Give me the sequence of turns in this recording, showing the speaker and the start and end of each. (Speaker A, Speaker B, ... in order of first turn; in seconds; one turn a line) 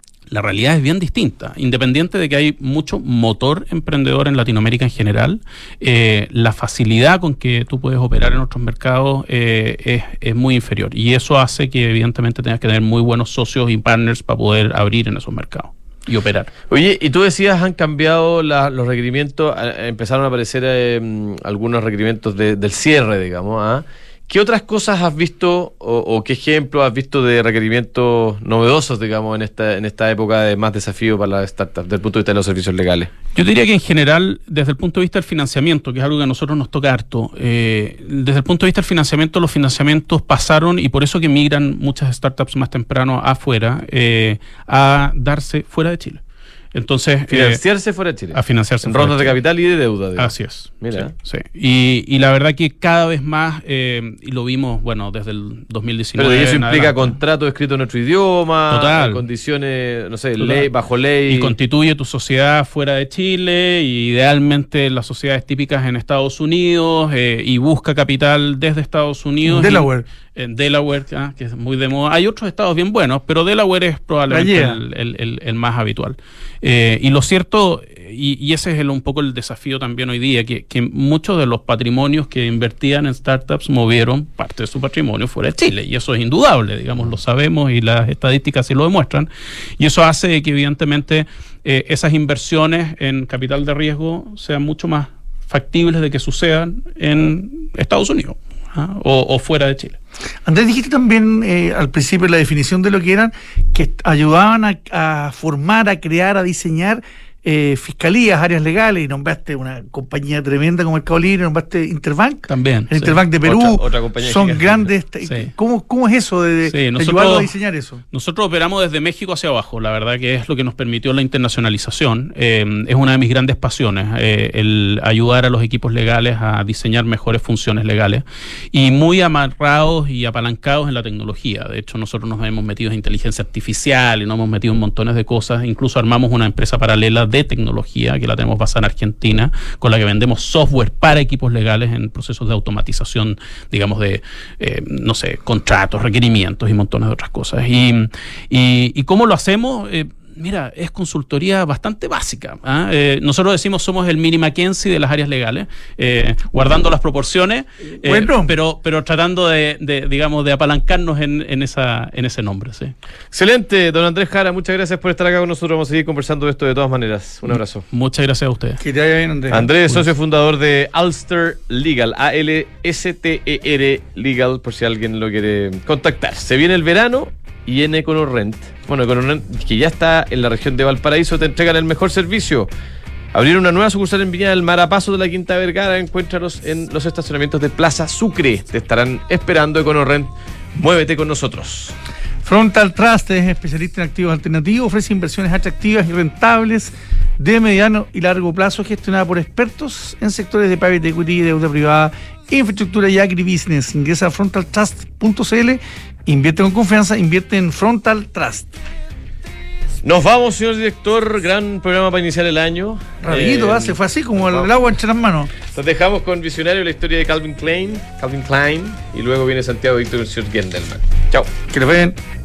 Speaker A: 0.3-16.5
Speaker B: 16.7-33.1
Speaker A: 33.3-46.2
Speaker A: 46.7-47.6
Speaker B: 47.3-51.1
Speaker A: 48.3-49.4
Speaker A: 50.2-57.1
Speaker B: 56.2-61.5
Speaker A: 58.7-59.2
Speaker A: 60.4-60.7
Speaker A: 61.3-100.0
Speaker C: 69.4-70.0
Speaker C: 74.3-74.8
Speaker C: 100.4-118.0
Speaker A: 112.5-113.2
Speaker B: 113.4-114.9
Speaker A: 115.2-115.5
Speaker A: 116.6-117.5
Speaker A: 118.1-162.9
Speaker C: 158.0-158.5
Speaker B: 163.3-167.8
Speaker A: 167.9-168.8
Speaker C: 168.8-169.7
Speaker B: 169.5-182.7
Speaker B: 183.3-191.9
Speaker C: 192.4-208.7
Speaker B: 210.0-214.7
Speaker C: 213.2-215.5
Speaker B: 215.7-221.5
Speaker C: 221.7-222.2